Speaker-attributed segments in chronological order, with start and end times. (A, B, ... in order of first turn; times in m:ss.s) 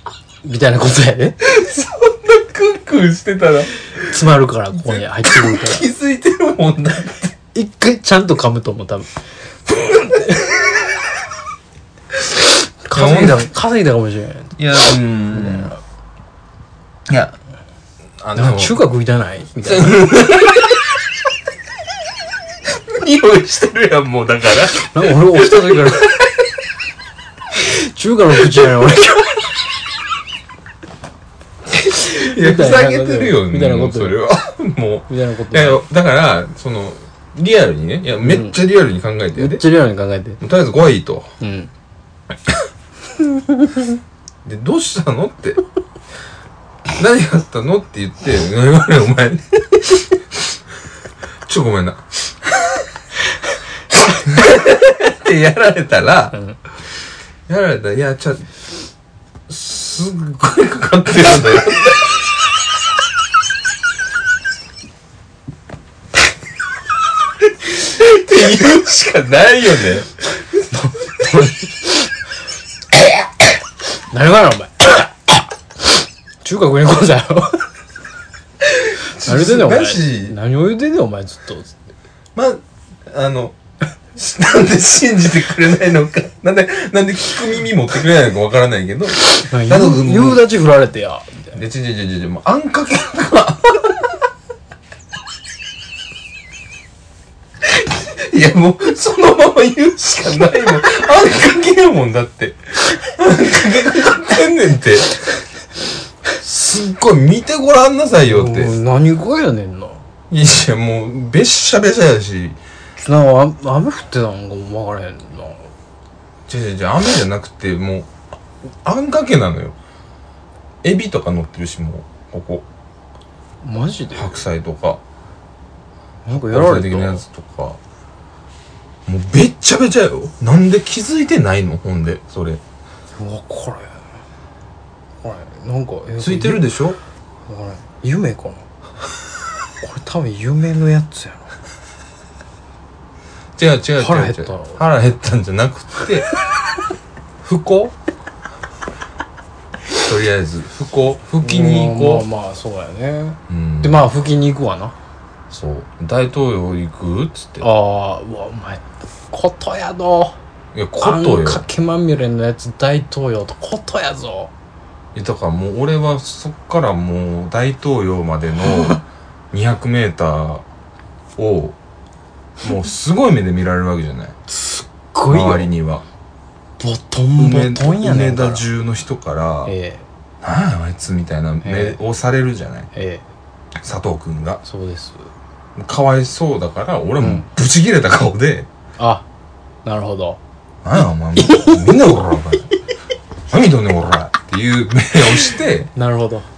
0:00.4-0:01.4 A
0:01.4-0:04.1 B
0:04.0-0:05.9 A
0:04.7-0:07.3 B
0:07.5-0:09.1 A
0:09.7-0:10.6 A
0:12.8-0:14.6 A
0:12.9-0:13.5 B
0:14.6-0:15.7 B
0:15.3-0:15.8 A
0:17.1-0:17.4 B
0:18.2-0:18.8 B
0:18.4-0:20.1 A
0:19.6-0:20.9 B
0:22.9-0:26.4 B
0:24.8-0:26.2 A
0:27.5-0:29.5 A
0:31.8-0:34.2 A
0:31.9-0:39.6 B
0:35.1-0:35.8 A
0:38.2-0:38.6 A
0:39.4-0:40.4 A
0:40.4-0:41.3 B
0:41.4-0:41.7 A
0:43.3-0:43.9 A
0:44.4-0:45.6 B
0:46.9-0:50.4 B
0:51.4-0:52.8 B
0:54.2-0:56.4 B
0:57.5-0:58.5 B
0:59.5-1:02.2 B
1:07.6-1:10.1 B
1:10.6-1:12.1 A
1:14.1-1:17.7 A
1:18.6-1:20.4 B
1:19.0-1:21.8 A
1:22.4-1:23.6 B
1:24.2-1:30.4 B
1:29.4-1:31.6 A
1:31.5-1:34.2 B
1:37.6-1:45.1 B
1:46.4-1:48.8 B
1:48.2-1:50.0 A
1:50.3-1:52.6 B
1:53.0-1:55.7 A
1:56.5-1:58.1 B
1:58.8-1:59.8 B
2:00.8-2:02.6 B
2:03.6-2:04.4 A
2:04.1-2:05.0 B
2:06.3-2:07.2 A
2:06.3-2:07.8 B
2:09.1-2:12.6 B
2:13.2-2:14.0 A
2:15.2-2:16.7 A
2:16.2-2:17.0 B
2:17.5-2:18.7 A
2:19.8-2:21.5 A
2:23.6-2:26.3 B
2:24.0-2:24.8 A
2:27.4-2:27.9 B
2:30.0-2:32.3 B
2:31.4-2:35.0 A
2:33.5-2:34.0 B
2:35.5-2:37.7 B
2:37.6-2:40.4 A
2:40.7-2:41.6 B
2:41.0-2:44.5 A
2:45.2-2:50.6 B
2:51.4-2:51.8 B
2:52.6-2:54.4 B
2:54.5-2:55.7 A
2:55.3-2:56.0 B
2:56.8-2:58.7 A
2:57.4-2:59.7 B
2:59.7-3:00.0 A
3:00.4-3:02.9 B
3:01.6-3:02.0 A
3:02.9-3:03.2 A
3:03.8-3:04.6 B
3:04.6-3:05.3 A
3:05.8-3:08.7 B
3:07.2-3:07.5 A
3:09.0-3:09.3 A
3:09.8-3:10.4 A
3:10.8-3:12.7 B
3:11.5-3:11.8 A
3:13.5-3:15.9 B
3:16.0-3:16.5 A